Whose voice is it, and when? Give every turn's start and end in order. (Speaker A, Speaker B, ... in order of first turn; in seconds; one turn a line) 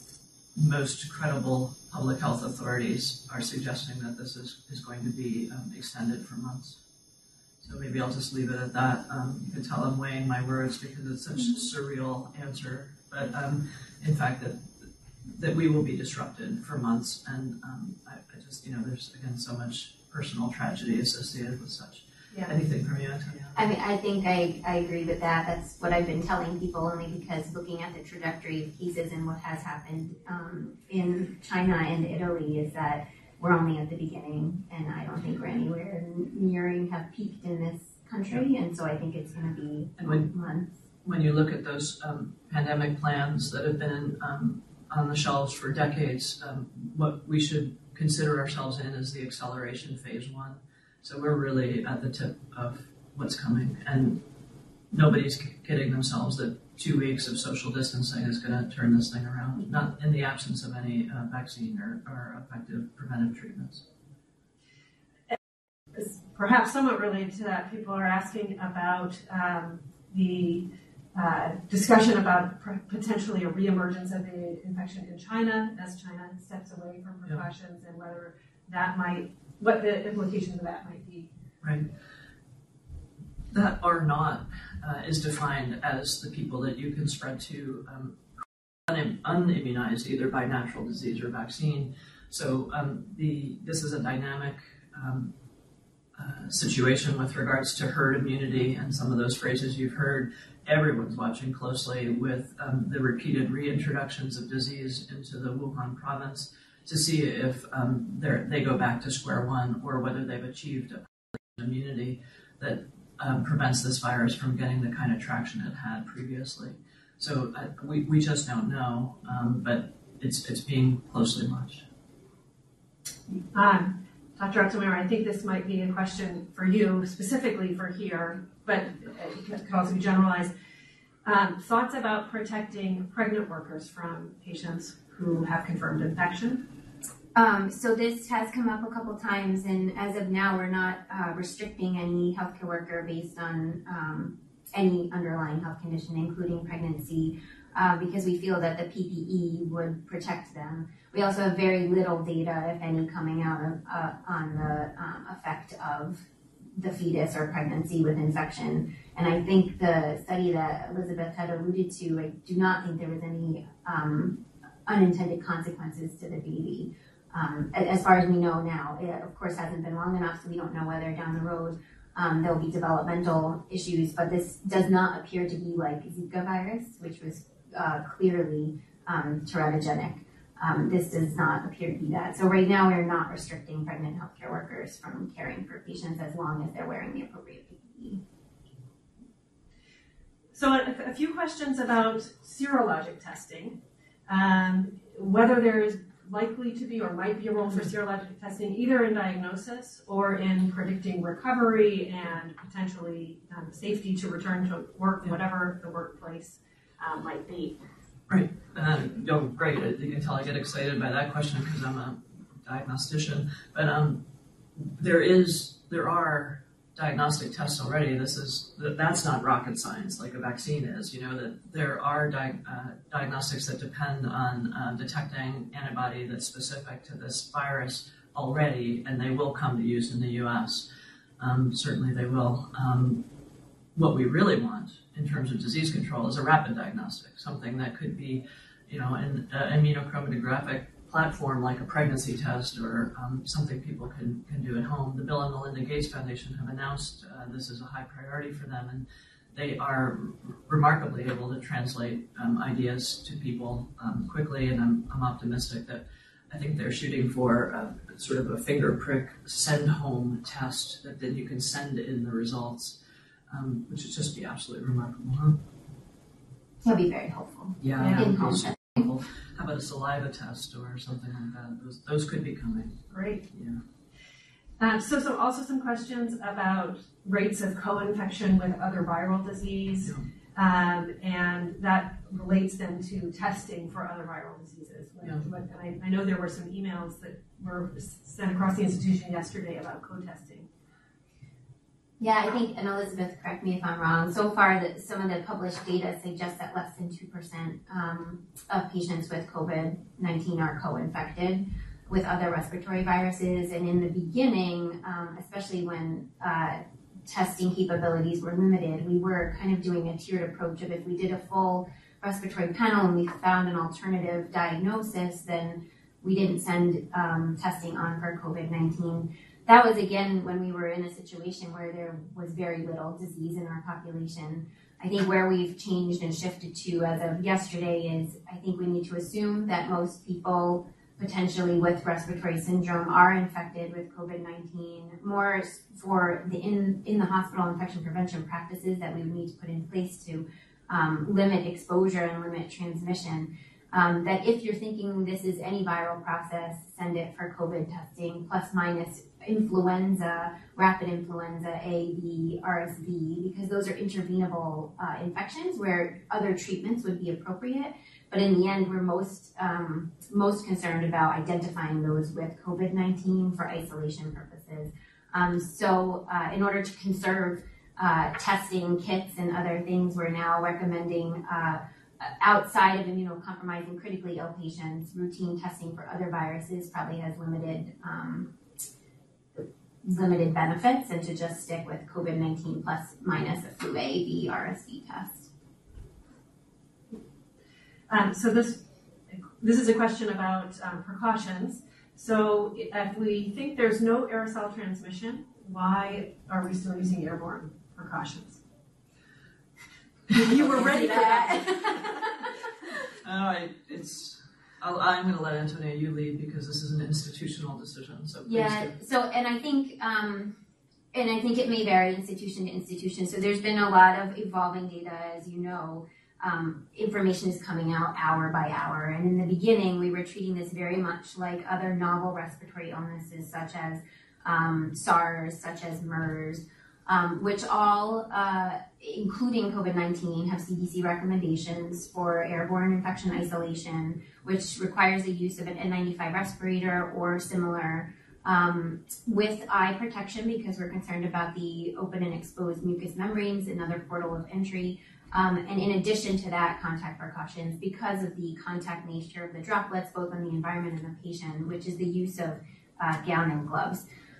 Speaker A: 0.6-6.8
Speaker A: 7.6-23.6
Speaker B: 23.6-40.7
Speaker A: 40.0-40.3
Speaker A: 41.0-54.2
Speaker A: 54.9-63.9
Speaker C: 65.9-81.3
Speaker A: 81.6-81.9
Speaker A: 83.5-95.3
Speaker A: 96.2-121.8
Speaker C: 123.5-130.5
Speaker C: 131.2-136.7
Speaker B: 137.3-188.2
Speaker C: 190.5-207.8
Speaker A: 208.3-214.2
Speaker A: 214.8-230.9
Speaker A: 231.4-233.2
Speaker A: 233.9-263.0
Speaker A: 263.5-265.6
Speaker B: 266.8-268.9
Speaker A: 267.8-273.8
Speaker C: 268.0-268.3
Speaker C: 273.1-273.5
Speaker C: 274.8-290.7
Speaker B: 292.2-378.5
Speaker B: 379.6-385.5
Speaker C: 388.1-398.6
Speaker C: 400.3-402.3
Speaker B: 400.5-402.0
Speaker A: 403.2-408.9
Speaker B: 408.5-410.6
Speaker B: 411.1-454.0